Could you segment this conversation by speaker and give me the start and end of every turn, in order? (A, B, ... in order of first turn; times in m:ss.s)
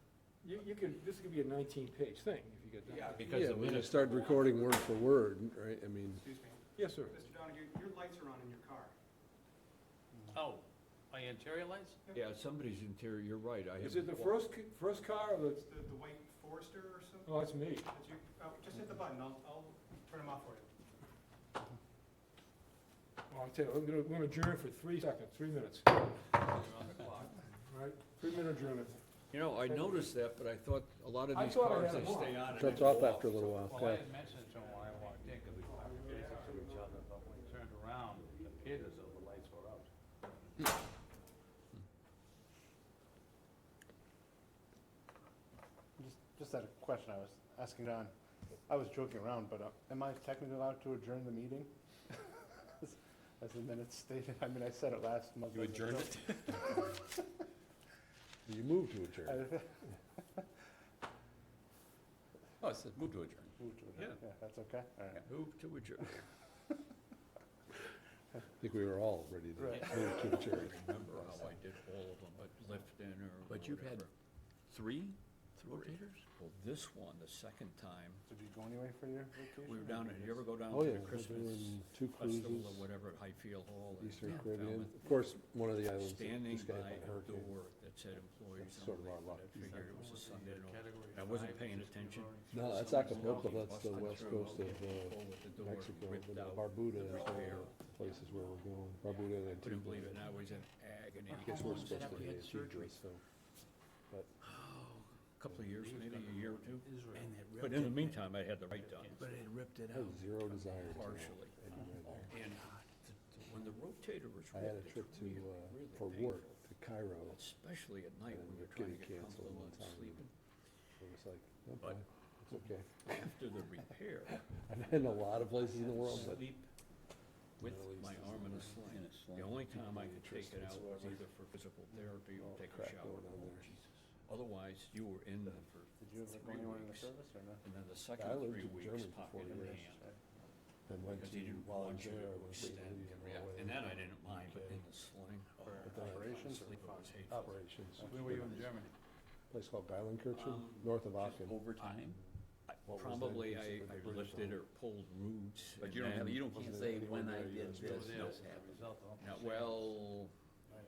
0:00.4-0:03.3 A
0:02.9-0:04.6 B
0:03.2-0:06.2 C
0:04.2-0:04.8 D
0:06.2-0:08.9 D
0:06.8-0:07.2 A
0:10.3-0:12.0 E
0:12.1-0:14.4 B
0:13.8-0:15.6 A
0:15.6-0:17.3 D
0:17.2-0:17.9 A
0:17.8-0:20.7 D
0:23.3-0:26.2 A
0:26.4-0:27.4 E
0:27.7-0:29.0 A
0:29.3-0:34.0 B
0:31.3-0:32.5 A
0:32.5-0:34.1 C
0:33.6-0:39.9 E
0:35.7-0:36.9 A
0:46.0-0:48.1 F
0:48.7-0:51.7 F
0:52.3-0:57.0 F
0:55.5-0:56.7 G
0:58.5-0:59.6 C
0:59.2-0:59.8 F
1:02.6-1:03.5 G
1:03.6-1:05.2 F
1:05.2-1:06.2 B
1:08.6-1:10.8 C
1:09.6-1:10.4 F
1:10.0-1:14.1 B
1:13.5-1:14.0 G
1:14.7-1:16.2 G
1:15.7-1:18.2 B
1:18.3-1:20.5 F
1:19.5-1:37.8 B
1:20.7-1:22.9 C
1:24.0-1:27.6 C
1:28.6-1:30.1 C
1:29.5-1:34.8 E
1:32.5-1:40.3 C
1:39.6-1:42.5 B
1:41.3-1:43.2 C
1:41.4-1:42.9 E
1:41.9-1:42.5 G
1:44.4-1:46.9 B
1:45.7-1:47.4 E
1:47.1-1:48.2 G
1:47.6-1:49.4 B
1:48.8-1:49.5 E
1:49.2-1:51.2 G
1:49.9-1:52.3 C
1:50.8-1:51.6 B
1:51.8-1:52.3 G
1:52.3-1:56.6 B
1:54.5-1:57.4 C
1:57.3-2:00.3 B
1:58.3-2:00.3 C
2:01.0-2:03.0 C
2:02.9-2:06.7 B
2:04.3-2:06.5 C
2:06.0-2:06.6 G
2:07.6-2:08.9 C
2:07.6-2:20.1 B
2:08.8-2:09.8 G
2:09.7-2:11.2 C
2:12.4-2:13.8 C
2:15.4-2:17.6 F
2:18.1-2:19.9 C
2:19.5-2:20.2 F
2:20.9-2:24.9 C
2:21.1-2:27.5 B
2:25.6-2:28.8 F
2:25.8-2:26.3 C
2:27.3-2:28.7 C
2:28.0-2:28.9 E
2:29.5-2:31.6 C
2:30.3-2:32.2 B
2:31.2-2:32.2 G
2:32.7-2:36.6 B
2:32.9-2:34.6 C
2:35.8-2:38.9 G
2:36.4-2:38.4 C
2:37.8-2:40.0 E
2:39.2-2:40.3 B